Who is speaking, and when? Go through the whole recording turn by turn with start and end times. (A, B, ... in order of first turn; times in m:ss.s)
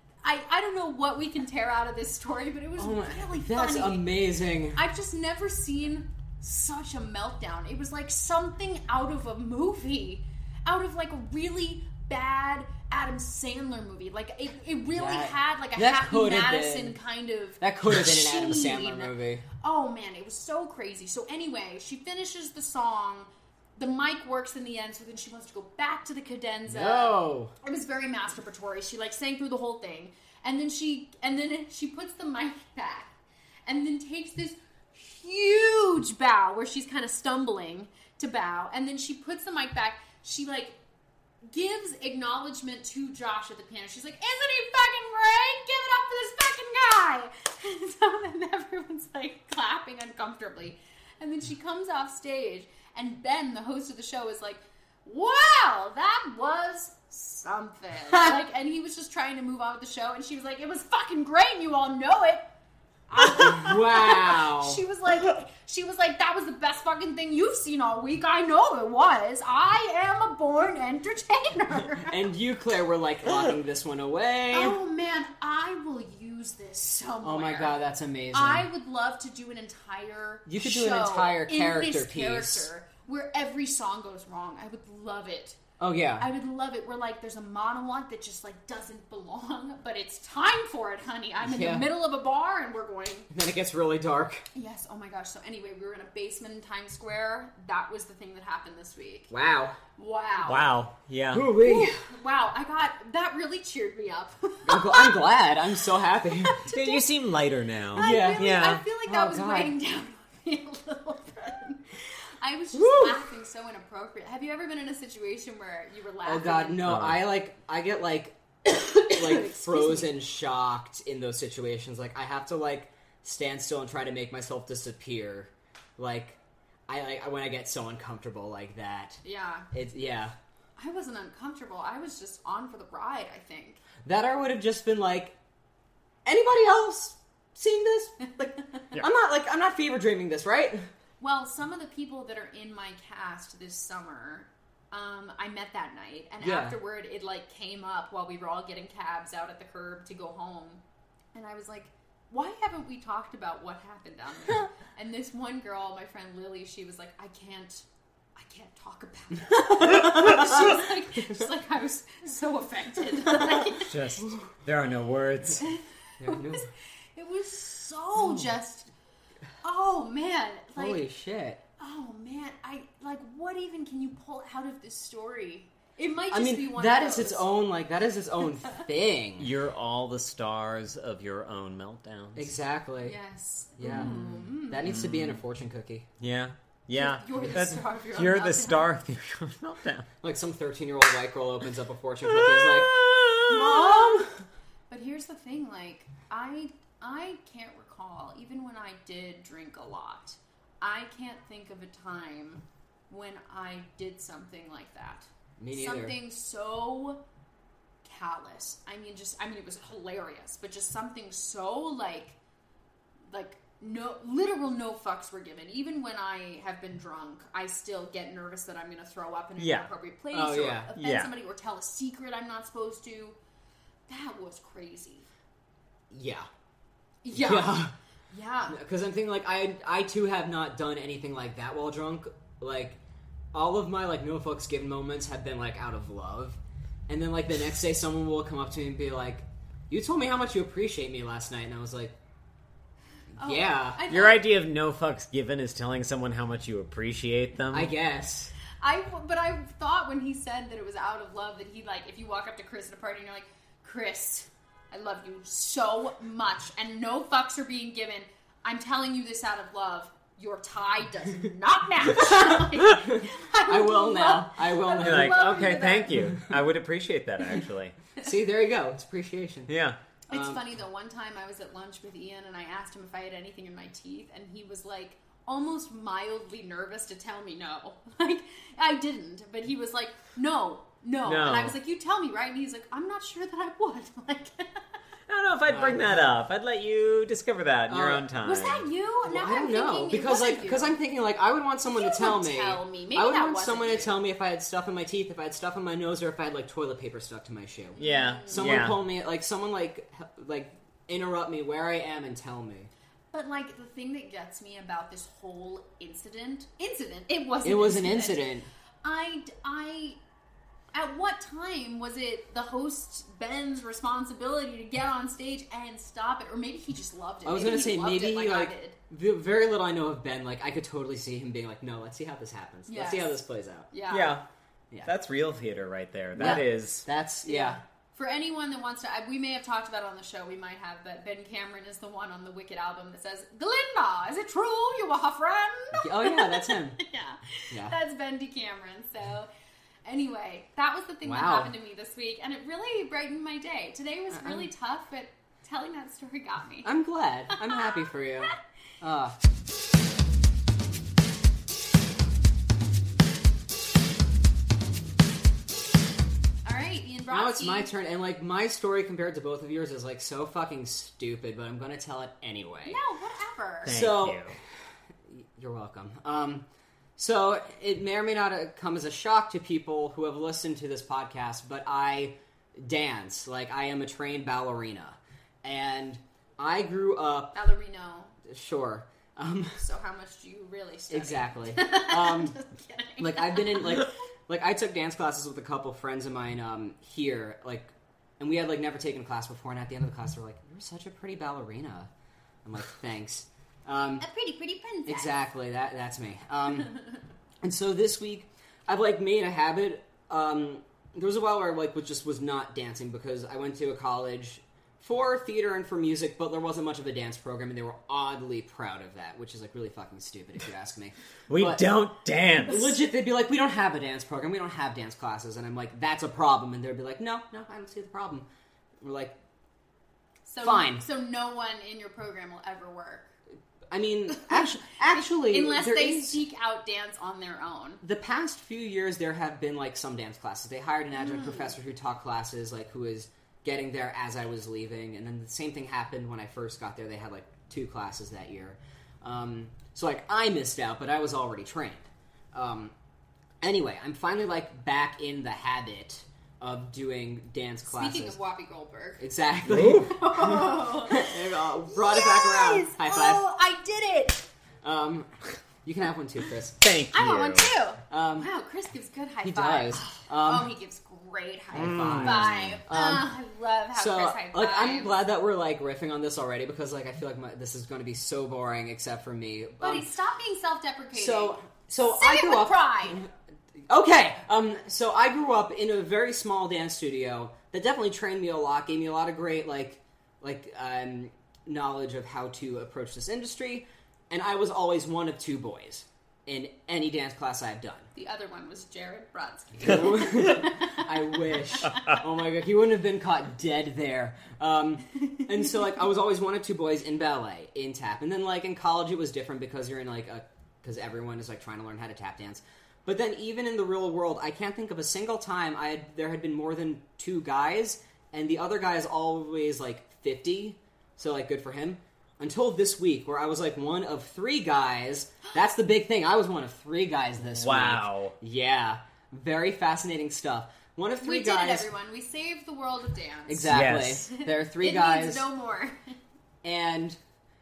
0:00.2-0:04.1 A
0:02.8-0:04.8 B
0:04.7-0:33.1 A
0:14.9-0:17.0 B
0:17.6-0:19.4 B
0:26.7-0:27.5 B
0:33.7-0:40.8 A
0:41.5-1:02.4 A
0:58.1-0:58.4 B
1:03.1-1:12.2 A
1:03.2-1:04.8 B
1:12.0-1:14.8 B
1:14.5-1:17.8 A
1:17.2-1:18.7 B
1:18.3-1:25.6 A
1:20.5-1:22.7 B
1:25.8-1:26.3 B
1:26.2-1:33.3 A
1:31.4-1:31.9 B
1:33.3-1:34.5 B
1:34.5-1:39.3 A
1:39.3-1:39.8 B
1:40.0-1:40.7 A
1:40.5-1:41.5 C
1:41.3-1:42.0 B
1:41.6-1:45.3 A
1:44.6-1:46.6 B
1:46.2-1:47.1 A
1:46.7-1:48.8 C
1:47.9-1:56.9 A
1:48.0-1:48.6 B
1:49.1-1:49.8 B
1:52.7-1:53.2 B
1:56.2-1:58.4 B
1:56.8-1:57.2 C
1:58.7-2:00.1 A
1:59.1-2:10.4 B
2:09.2-2:09.7 A
2:10.8-2:13.8 A
2:14.0-2:15.4 B
2:16.3-2:20.9 B
2:21.2-2:30.8 A
2:26.4-2:26.8 B
2:31.4-2:44.2 A
2:39.6-2:40.8 B
2:43.6-2:45.6 C
2:45.6-2:48.9 A
2:46.2-2:46.7 B
2:49.6-2:51.1 A
2:50.8-2:51.6 B
2:51.8-2:57.5 A
2:56.3-2:59.5 B
2:59.4-3:02.5 C
3:02.4-3:03.2 B
3:03.0-3:05.0 A
3:03.8-3:06.1 B
3:03.9-3:04.2 C
3:04.8-3:05.4 C
3:06.2-3:10.1 C
3:06.9-3:08.9 A
3:10.2-3:14.4 B
3:12.4-3:14.0 C
3:13.5-3:14.2 A
3:14.9-3:27.2 A
3:25.6-3:26.2 B
3:28.0-3:32.4 A
3:33.3-3:43.4 A
3:39.6-3:39.9 C
3:40.3-3:40.9 B
3:41.0-3:41.3 C
3:44.1-3:45.3 A
3:46.1-3:46.5 B
3:47.2-3:48.8 A
3:47.3-3:47.9 B
3:48.7-3:53.0 B
3:53.5-4:02.2 B
4:03.4-4:04.0 B
4:03.4-4:04.4 A
4:04.1-4:07.9 C
4:07.7-4:08.5 B
4:08.8-4:26.4 A
4:22.2-4:25.6 B
4:25.0-4:28.0 C
4:26.1-4:26.6 B
4:28.2-4:29.7 B
4:29.7-4:30.0 C
4:30.3-4:44.8 A
4:30.3-4:30.6 B
4:41.3-4:41.8 C
4:45.3-4:48.9 C
4:45.7-4:46.3 B
4:47.9-4:48.3 B
4:48.4-4:51.0 A
4:49.3-5:02.9 B
4:51.9-4:54.2 A
4:58.0-4:58.8 A
4:58.0-4:59.0 C
5:03.3-5:08.4 A
5:07.6-5:08.7 B
5:09.0-5:10.2 A
5:10.9-5:19.0 A
5:17.4-5:23.9 B
5:22.9-5:24.4 A
5:24.1-5:24.4 C
5:25.0-5:27.1 C
5:26.4-5:27.8 B
5:27.4-5:39.5 A
5:35.9-5:37.0 B
5:40.0-5:46.9 A
5:41.2-5:41.7 B
5:44.3-5:44.7 B
5:46.8-5:49.4 B
5:47.5-5:48.5 A
5:56.6-5:57.9 A
5:57.3-6:03.0 B
6:02.8-6:04.0 A
6:03.9-6:04.6 B
6:03.9-6:04.6 C
6:05.3-6:06.7 B
6:07.2-6:17.6 B
6:17.5-6:18.4 A
6:18.4-6:19.8 B
6:19.8-6:24.1 A
6:21.1-6:22.6 B
6:23.2-6:32.1 B
6:32.6-6:34.3 B
6:34.2-6:35.4 A
6:35.1-6:37.0 B
6:37.6-6:51.8 B
6:51.5-6:52.9 C
6:52.6-6:58.5 B
6:59.0-6:59.4 B
7:00.5-7:03.3 A
7:00.6-7:01.0 B
7:03.9-7:06.4 B
7:04.4-7:08.0 A
7:08.0-7:22.9 B
7:11.1-7:11.7 A
7:23.6-7:28.4 B
7:27.8-7:29.2 A
7:29.2-7:33.4 B
7:29.7-7:30.2 C
7:30.0-7:34.5 A
7:34.8-7:35.3 B
7:35.8-7:36.8 B
7:36.8-7:37.7 C
7:37.1-7:45.1 A
7:38.1-7:38.5 B
7:39.4-7:40.7 B
7:41.7-7:43.3 B
7:41.8-7:42.8 C
7:43.9-7:50.1 B
7:49.8-7:53.2 A
7:51.1-7:53.3 B
7:53.9-8:08.1 B
8:08.2-8:12.2 A
8:09.8-8:41.9 B
8:37.5-8:38.4 C
8:41.2-8:46.1 A
8:43.5-8:45.5 B
8:43.7-8:44.3 C
8:46.6-8:47.2 B